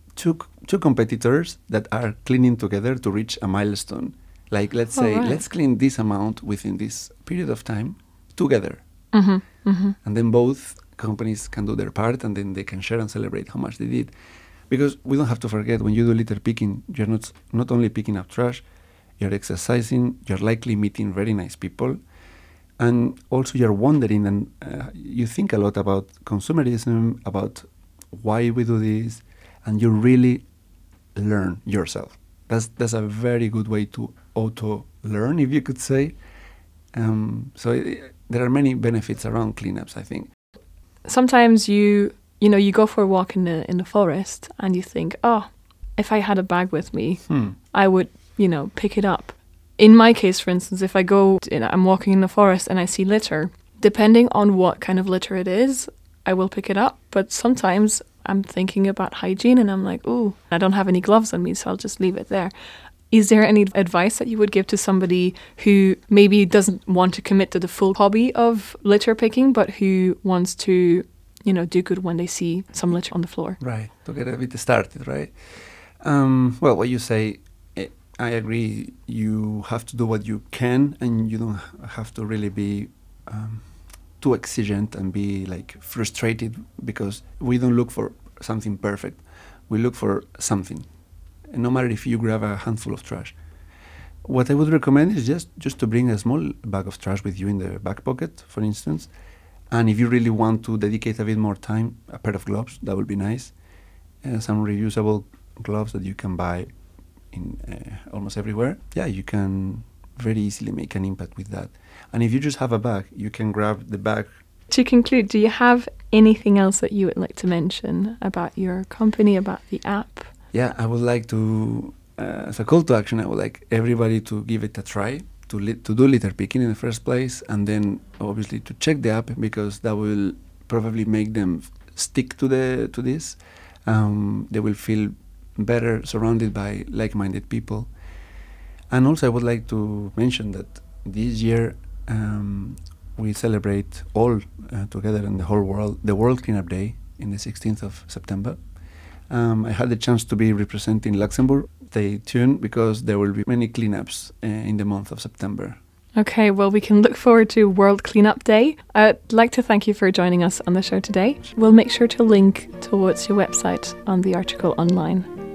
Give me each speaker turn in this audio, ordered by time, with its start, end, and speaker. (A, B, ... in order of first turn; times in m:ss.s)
0:00.2-0:08.8 A
0:05.0-0:05.4 B
0:09.1-0:10.0 B
0:10.0-0:14.1 A
0:14.7-0:18.6 A
0:19.2-0:22.0 A
0:22.8-0:30.4 A
0:31.2-0:36.2 A
0:36.9-0:40.3 A
0:41.0-1:02.5 B
0:47.3-0:47.5 A
1:03.1-1:13.6 B
1:13.6-1:23.7 A
1:24.2-1:30.8 A
1:31.5-1:33.3 A
1:34.2-1:39.1 A
1:39.7-1:43.5 A
1:44.2-1:46.7 A
1:47.3-1:54.3 A
1:54.7-2:00.3 B
2:00.5-2:17.9 A
2:18.9-2:28.6 A
2:29.3-2:35.8 A
2:36.2-2:45.3 B